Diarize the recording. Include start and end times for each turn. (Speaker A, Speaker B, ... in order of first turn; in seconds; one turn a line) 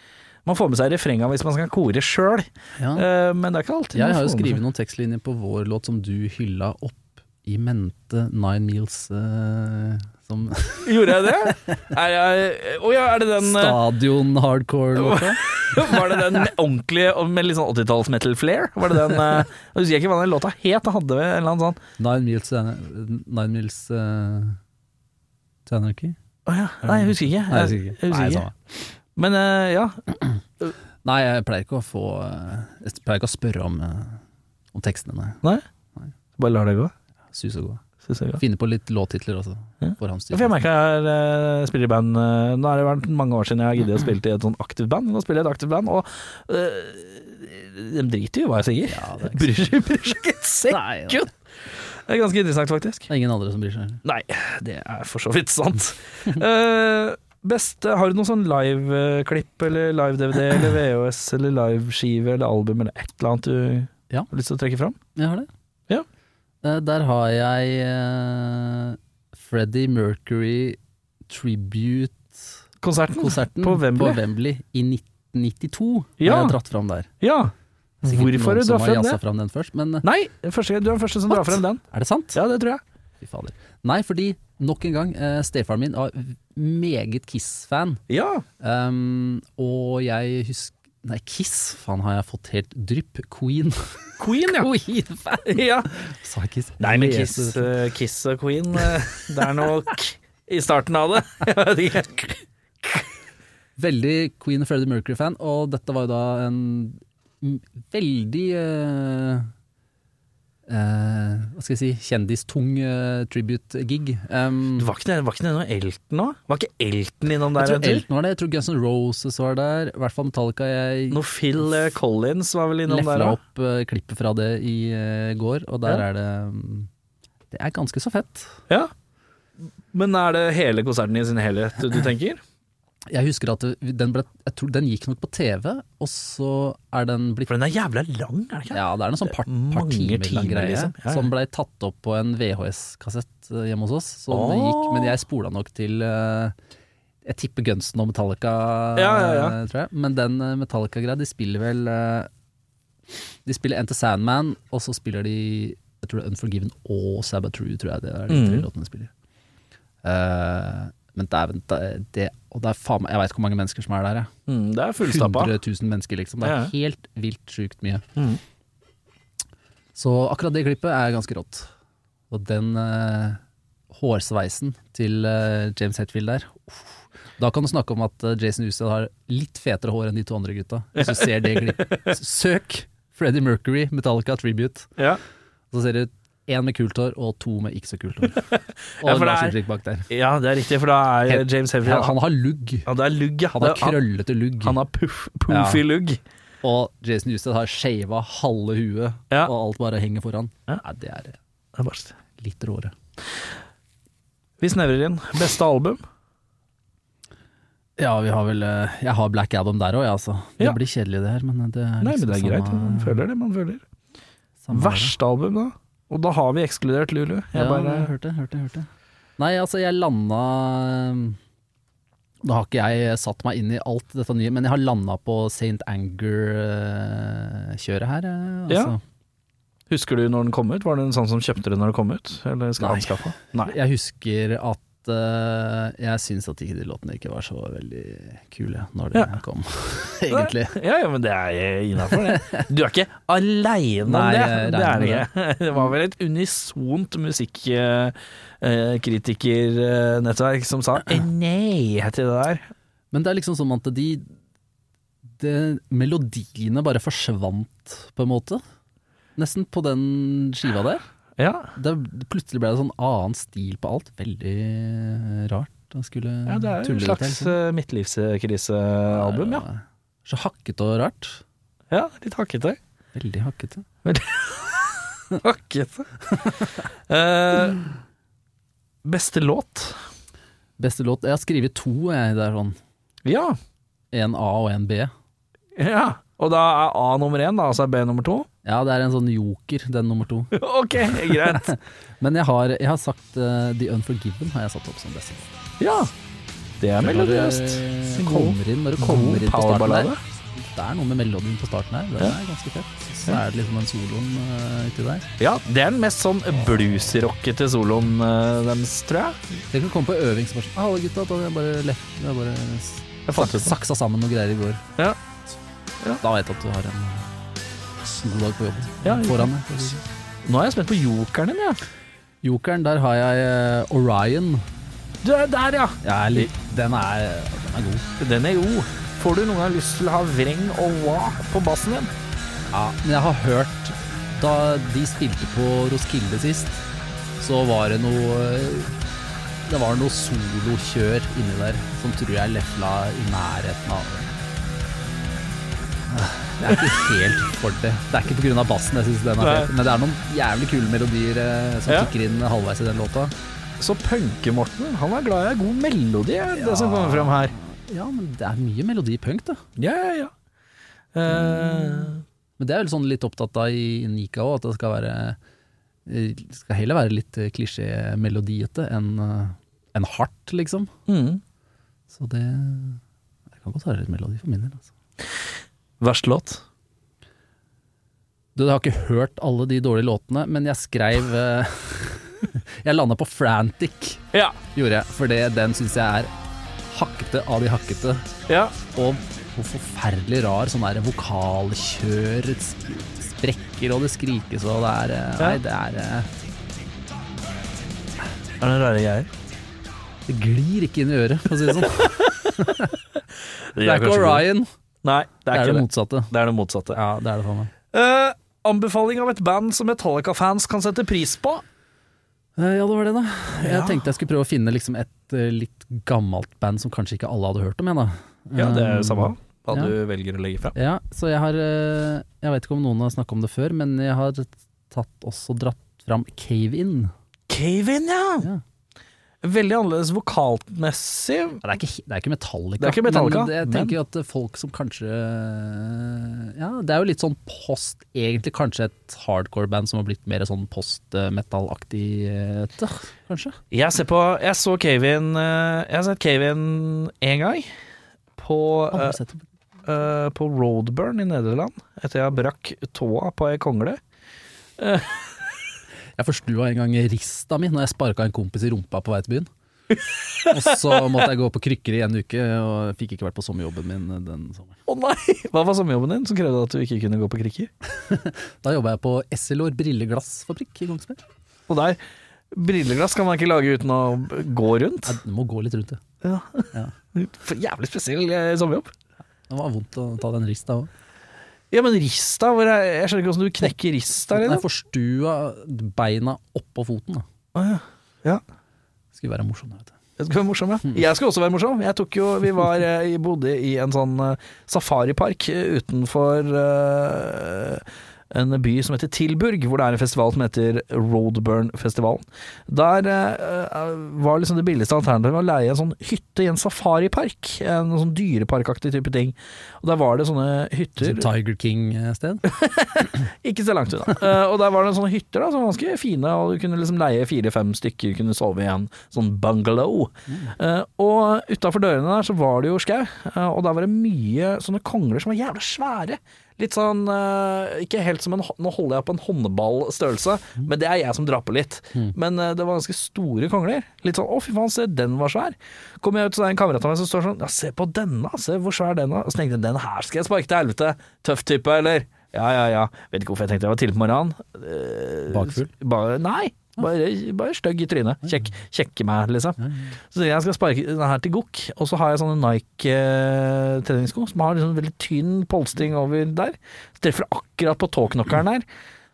Speaker A: 0.5-4.6
Speaker B: 2.8-3.1
Speaker B: 4.0-11.9
Speaker A: 10.8-13.8
Speaker B: 13.4-16.4
Speaker A: 14.9-21.8
Speaker B: 22.0-24.6
Speaker B: 25.7-26.2
Speaker A: 26.5-28.5
Speaker B: 26.9-28.6
Speaker A: 29.2-30.0
Speaker B: 31.0-34.2
Speaker B: 34.7-35.4
Speaker A: 36.4-36.9
Speaker B: 37.3-37.8
Speaker A: 38.1-38.4
Speaker B: 38.4-40.6
Speaker A: 39.8-53.1
Speaker B: 48.9-49.7
Speaker B: 50.7-51.3
Speaker B: 53.1-54.0
Speaker A: 54.0-65.0
Speaker B: 65.2-65.5
Speaker B: 66.6-72.6
Speaker A: 72.8-74.2
Speaker B: 73.2-77.1
Speaker A: 76.2-76.6
Speaker A: 77.2-77.5
Speaker B: 78.0-80.1
Speaker A: 78.0-79.2
Speaker A: 80.0-81.8
Speaker B: 81.3-82.4
Speaker A: 82.3-82.8
Speaker B: 83.2-88.0
Speaker A: 88.1-88.4
Speaker B: 88.6-97.7
Speaker A: 94.2-94.7
Speaker A: 95.5-95.9
Speaker A: 96.8-103.1
Speaker B: 103.8-109.5
Speaker B: 110.7-114.9
Speaker A: 114.8-118.0
Speaker B: 117.6-121.2
Speaker A: 121.1-123.4
Speaker B: 122.9-126.9
Speaker B: 127.5-128.6
Speaker A: 129.9-132.4
Speaker B: 133.1-137.5
Speaker A: 137.5-138.8
Speaker B: 138.7-146.6
Speaker A: 139.4-141.3
Speaker A: 144.3-145.2
Speaker B: 147.2-152.3
Speaker A: 149.0-149.6
Speaker B: 153.4-159.1
Speaker A: 158.3-158.7
Speaker B: 160.0-164.3
Speaker A: 164.5-165.5
Speaker B: 165.0-168.1
Speaker A: 166.4-166.7
Speaker A: 168.2-168.4
Speaker B: 169.9-171.7
Speaker B: 172.3-173.4
Speaker B: 173.9-184.9
Speaker A: 181.0-182.1
Speaker B: 185.7-188.4
Speaker A: 188.5-189.6
Speaker B: 189.0-190.1
Speaker A: 190.1-192.2
Speaker B: 191.3-192.9
Speaker A: 192.9-194.0
Speaker B: 193.5-194.8
Speaker A: 194.6-196.2
Speaker B: 195.5-195.8
Speaker B: 196.6-201.4
Speaker A: 201.8-202.2
Speaker B: 202.3-202.9
Speaker A: 204.6-206.0
Speaker B: 208.0-213.2
Speaker A: 212.0-213.8
Speaker B: 214.6-215.2
Speaker A: 214.7-218.1
Speaker B: 217.5-221.4
Speaker B: 222.4-229.0
Speaker A: 228.7-228.9
Speaker A: 229.9-233.7
Speaker B: 232.8-240.8
Speaker A: 240.3-252.7
Speaker B: 242.1-242.7
Speaker B: 244.1-245.3
Speaker B: 253.1-254.3
Speaker B: 255.4-258.6
Speaker B: 259.4-261.0
Speaker A: 261.4-261.7
Speaker B: 261.8-267.6
Speaker A: 266.5-269.6
Speaker B: 269.1-271.4
Speaker A: 271.9-272.8
Speaker B: 273.1-273.9
Speaker A: 274.1-276.1
Speaker A: 277.1-277.9
Speaker A: 279.1-280.0
Speaker B: 280.8-282.8
Speaker A: 283.2-283.6
Speaker B: 284.1-285.1
Speaker A: 285.8-288.5
Speaker B: 288.6-295.5
Speaker A: 290.5-291.7
Speaker A: 295.8-296.1
Speaker A: 296.8-300.2
Speaker B: 297.0-305.3
Speaker A: 305.4-309.4
Speaker B: 309.7-314.8
Speaker A: 313.3-313.8
Speaker B: 316.2-317.3
Speaker B: 318.1-320.0
Speaker A: 319.0-319.9
Speaker A: 320.4-321.8
Speaker B: 322.4-324.6
Speaker A: 325.2-326.5
Speaker B: 326.0-328.1
Speaker A: 328.2-332.1
Speaker B: 332.7-336.8
Speaker B: 337.4-338.9
Speaker B: 339.7-344.3
Speaker B: 346.1-353.3
Speaker A: 349.4-349.7
Speaker A: 353.8-357.5
Speaker B: 356.5-359.6
Speaker A: 359.8-360.3
Speaker A: 361.1-362.2
Speaker B: 361.3-365.4
Speaker B: 366.1-370.9
Speaker A: 371.1-371.4
Speaker B: 372.1-373.0
Speaker B: 373.6-374.9
Speaker A: 376.0-376.6
Speaker B: 378.6-386.3
Speaker B: 386.9-388.3
Speaker A: 388.5-388.8
Speaker B: 388.9-396.3
Speaker A: 398.6-399.3
Speaker B: 400.3-403.0
Speaker A: 401.8-402.1
Speaker A: 403.8-404.5
Speaker B: 403.8-404.7
Speaker A: 405.0-407.0
Speaker B: 405.5-406.3
Speaker B: 406.9-407.7
Speaker A: 407.9-411.6
Speaker B: 412.6-419.9
Speaker A: 413.6-414.0
Speaker A: 418.6-420.8
Speaker B: 420.8-427.1
Speaker A: 427.5-428.5
Speaker A: 429.4-431.6
Speaker B: 431.6-443.6
Speaker A: 432.8-434.0
Speaker A: 443.7-447.7
Speaker A: 448.4-449.2
Speaker B: 448.9-449.5
Speaker A: 449.9-454.0
Speaker A: 454.8-455.5
Speaker B: 456.2-459.5
Speaker B: 460.5-464.8
Speaker A: 464.9-467.7
Speaker B: 467.9-471.2
Speaker A: 471.7-472.0
Speaker A: 472.5-475.2
Speaker B: 475.1-476.0
Speaker A: 476.2-478.9
Speaker B: 479.5-480.9
Speaker A: 481.7-484.6
Speaker B: 484.3-487.2
Speaker A: 487.6-488.4
Speaker B: 489.1-489.9
Speaker A: 490.2-511.3
Speaker B: 511.0-512.5
Speaker A: 512.5-558.7
Speaker B: 545.3-545.7
Speaker B: 549.6-550.0